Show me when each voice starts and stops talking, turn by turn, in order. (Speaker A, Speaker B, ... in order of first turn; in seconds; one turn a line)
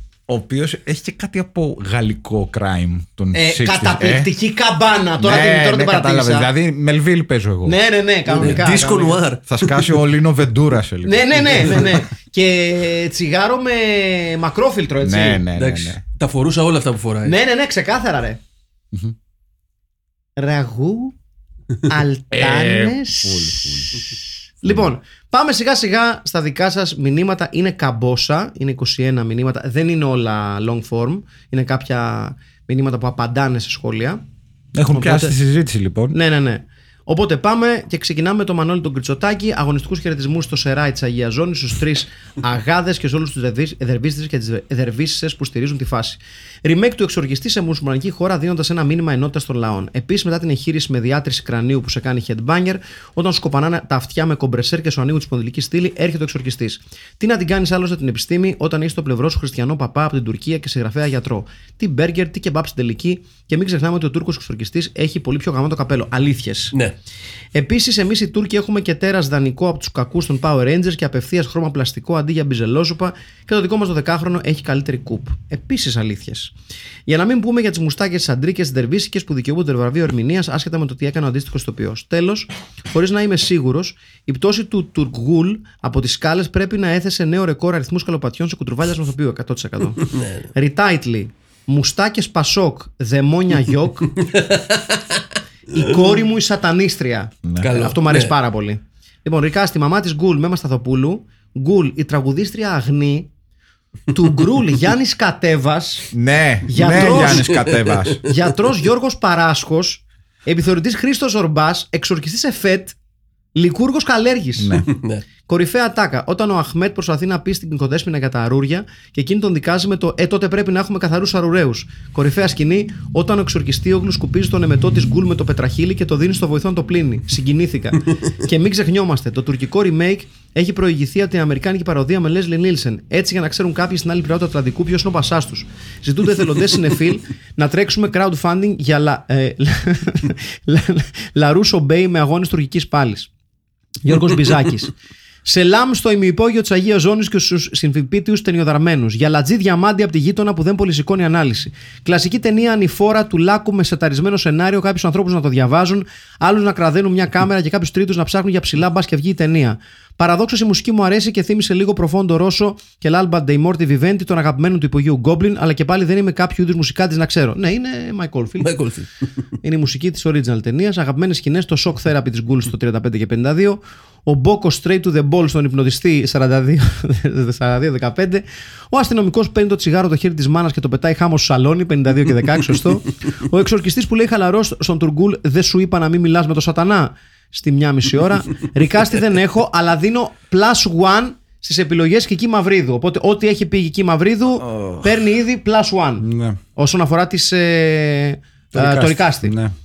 Speaker A: 0.3-4.3
Speaker B: 3.3-6.5
Speaker A: 5.2-7.8
Speaker B: 7.7-9.2
Speaker C: 8.3-9.8
Speaker A: 8.4-8.6
Speaker A: 9.5-12.0
Speaker B: 11.1-15.4
Speaker A: 15.0-16.0
Speaker C: 15.6-17.4
Speaker B: 17.2-18.4
Speaker B: 20.4-21.2
Speaker B: 21.9-24.1
Speaker A: 22.3-24.1
Speaker B: 24.6-34.2
Speaker A: 24.6-24.9
Speaker A: 34.7-36.2
Speaker B: 34.9-35.3
Speaker B: 36.1-66.8
Speaker B: 67.5-76.5
Speaker B: 77.1-94.2
Speaker C: 90.0-90.5
Speaker C: 94.2-95.2
Speaker B: 95.7-103.3
Speaker A: 97.4-97.8
Speaker C: 97.6-98.3
Speaker B: 104.1-106.1
Speaker A: 106.1-108.2
Speaker B: 106.7-107.6
Speaker C: 106.9-108.2
Speaker B: 108.2-113.0
Speaker B: 113.5-114.9
Speaker A: 114.6-114.9
Speaker C: 114.9-115.2
Speaker B: 115.5-143.3
Speaker B: 144.0-144.9
Speaker B: 145.4-168.8
Speaker C: 168.6-169.1
Speaker B: 169.6-199.6
Speaker A: 194.6-195.2
Speaker A: 196.2-196.6
Speaker A: 198.8-199.7